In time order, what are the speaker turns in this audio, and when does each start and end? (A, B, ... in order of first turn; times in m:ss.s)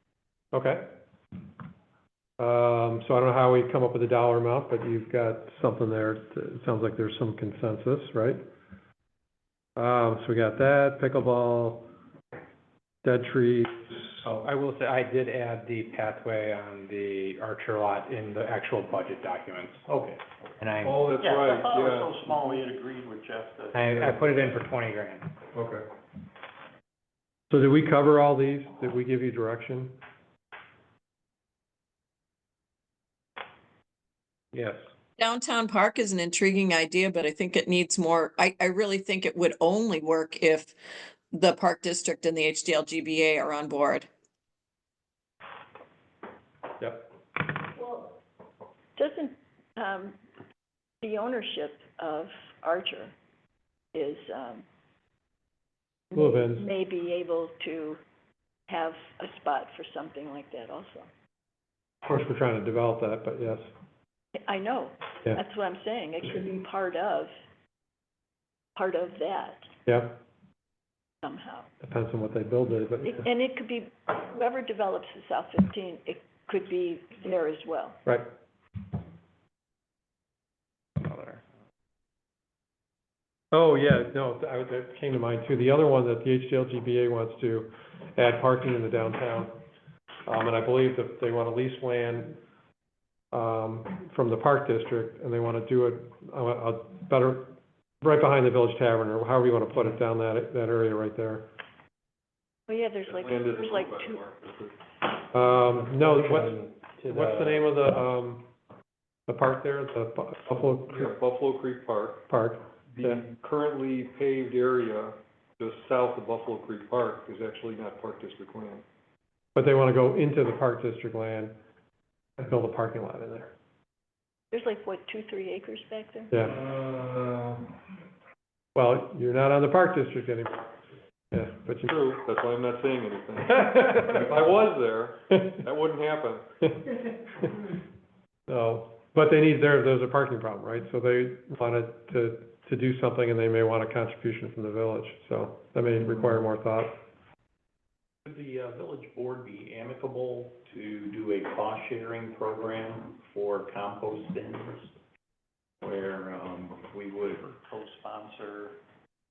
0:00.5-0:01.0 A
0:02.4-0:08.4 A
0:09.8-0:11.9 A
0:13.0-0:14.2 A
0:14.2-0:19.8 B
0:19.8-0:20.2 C
0:20.6-0:21.2 B
0:20.8-0:22.2 D
0:21.2-0:24.0 C
0:23.7-0:25.3 B
0:27.5-0:30.0 A
0:34.5-0:34.8 B
0:35.2-0:40.7 E
0:41.3-0:44.1 E
0:46.8-0:47.1 A
0:47.7-0:48.1 F
0:49.0-0:50.2 F
0:51.0-0:53.1 F
0:53.9-0:54.6 F
0:56.1-0:58.0 F
0:56.1-0:56.6 A
0:58.7-1:01.1 F
1:02.0-1:03.7 A
1:04.4-1:07.3 F
1:08.8-1:09.7 F
1:09.8-1:10.2 A
1:11.2-1:11.7 F
1:11.8-1:13.2 A
1:13.1-1:18.0 F
1:23.5-1:29.5 A
1:30.2-1:32.4 A
1:33.3-1:41.5 A
1:42.7-1:44.2 F
1:43.0-1:44.7 D
1:45.3-1:48.5 A
1:49.3-1:51.1 A
1:50.7-1:52.2 D
1:52.3-1:53.2 A
1:52.9-1:58.8 D
1:59.5-2:01.5 A
2:02.4-2:03.5 A
2:04.5-2:06.3 F
2:06.3-2:06.6 A
2:06.4-2:07.6 D
2:08.7-2:10.7 A
2:11.3-2:11.9 A
2:11.9-2:16.5 D
2:13.6-2:14.0 A
2:18.5-2:27.0 A
2:28.2-2:34.9 C
2:35.8-2:38.8 C